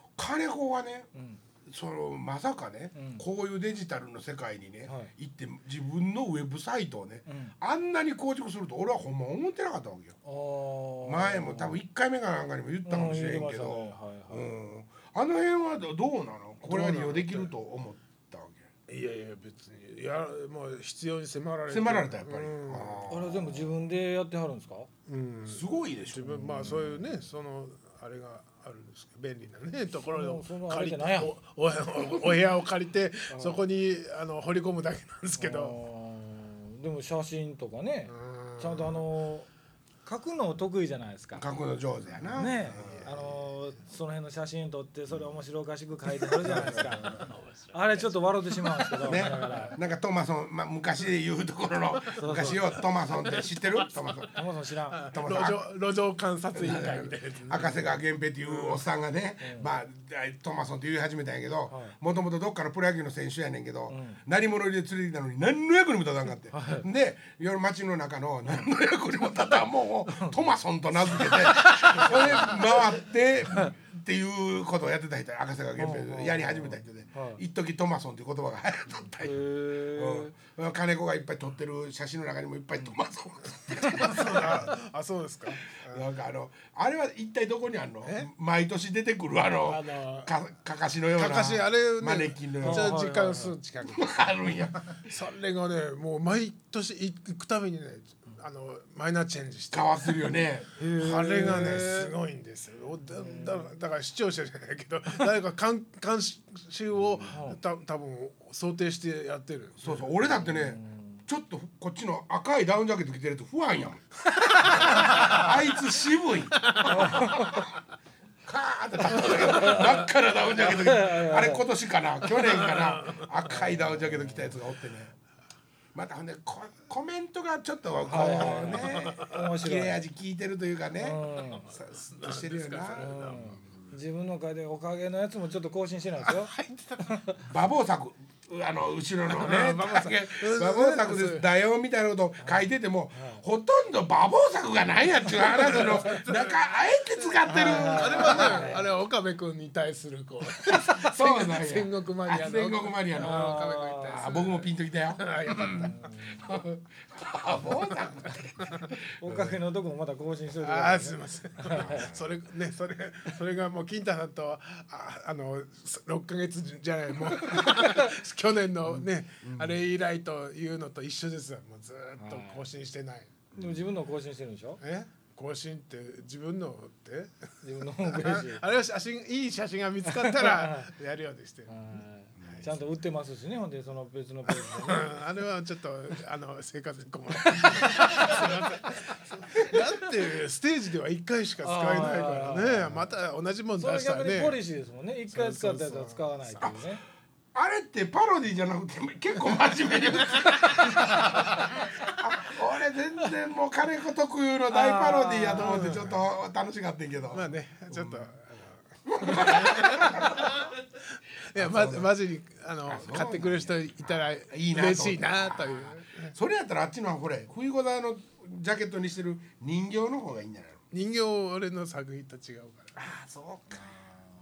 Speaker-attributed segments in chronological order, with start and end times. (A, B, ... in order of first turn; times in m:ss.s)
0:00.2-0:01.1 A
0:01.1-0:01.4 B
0:01.6-0:10.2 A
0:03.0-0:03.2 B
0:04.9-0:05.1 B
0:07.3-0:07.5 B
0:10.2-0:11.8 B
0:11.0-0:18.7 A
0:12.8-0:14.5 B
0:16.7-0:17.5 C
0:18.9-0:23.2 C
0:21.7-0:23.6 A
0:23.1-0:24.9 B
0:25.1-0:35.8 C
0:25.5-0:26.8 A
0:26.4-0:27.0 B
0:30.1-0:31.4 B
0:33.3-0:33.6 B
0:35.4-0:39.5 B
0:38.1-0:39.0 C
0:40.0-0:41.4 B
0:41.4-0:43.3 A
0:42.4-0:49.8 B
0:42.8-0:43.1 C
0:46.4-0:49.7 C
0:46.4-0:47.2 A
0:49.0-0:54.4 A
0:52.2-0:52.8 B
0:52.4-0:53.9 C
0:54.4-0:55.0 B
0:54.9-0:58.8 C
0:55.1-0:55.7 A
0:56.5-1:24.8 A
0:59.4-0:59.7 B
1:01.7-1:02.0 B
1:03.9-1:04.2 B
1:06.5-1:06.9 B
1:15.8-1:17.4 B
1:19.2-1:20.4 B
1:23.9-1:26.0 C
1:25.8-1:33.0 A
1:29.7-1:30.3 C
1:31.2-1:34.1 C
1:32.6-1:33.6 B
1:33.9-1:35.0 A
1:35.0-1:40.4 C
1:39.7-1:40.8 A
1:40.8-1:42.1 B
1:40.9-1:50.0 C
1:41.3-1:42.0 A
1:43.2-1:43.7 B
1:46.9-1:47.2 A
1:47.2-1:47.6 B
1:49.8-1:57.8 A
1:50.3-1:51.2 B
1:56.8-1:57.6 B
1:58.4-2:05.1 A
1:59.2-2:00.1 B
2:00.6-2:01.7 B
2:02.4-2:03.3 C
2:03.5-2:04.5 B
2:06.0-2:13.1 A
2:08.0-2:10.0 B
2:08.3-2:09.4 C
2:11.0-2:11.7 B
2:11.2-2:13.8 C
2:13.0-2:16.5 B
2:16.2-2:17.1 C
2:17.0-2:17.4 B
2:17.4-2:28.8 A
2:19.3-2:21.4 C
2:22.4-2:23.4 B
2:25.4-2:26.6 C
2:27.4-2:28.9 B
2:27.5-2:36.1 C
2:30.7-2:33.6 A
2:33.1-2:34.3 B
2:34.1-2:39.6 A
2:35.7-2:36.5 B
2:39.2-2:42.1 B
2:40.6-2:53.4 C
2:41.7-2:42.3 A
2:47.5-2:48.1 B
2:48.8-2:49.8 A
2:52.2-2:52.6 B
2:53.6-2:54.8 B
2:54.8-3:01.7 C
2:57.6-2:58.6 B
3:00.0-3:00.9 B
3:01.7-3:05.2 B
3:02.4-3:02.7 A
3:04.5-3:14.6 C
3:11.6-3:13.1 B
3:13.8-3:17.0 B
3:15.3-3:16.6 C
3:16.6-3:16.9 A
3:17.5-3:28.3 A
3:24.7-3:25.9 B
3:25.6-3:26.2 C
3:27.3-3:30.7 C
3:29.0-3:30.7 A
3:31.5-3:36.3 C
3:31.6-3:32.2 A
3:32.9-3:40.8 A
3:40.9-3:42.9 C
3:43.0-3:43.9 A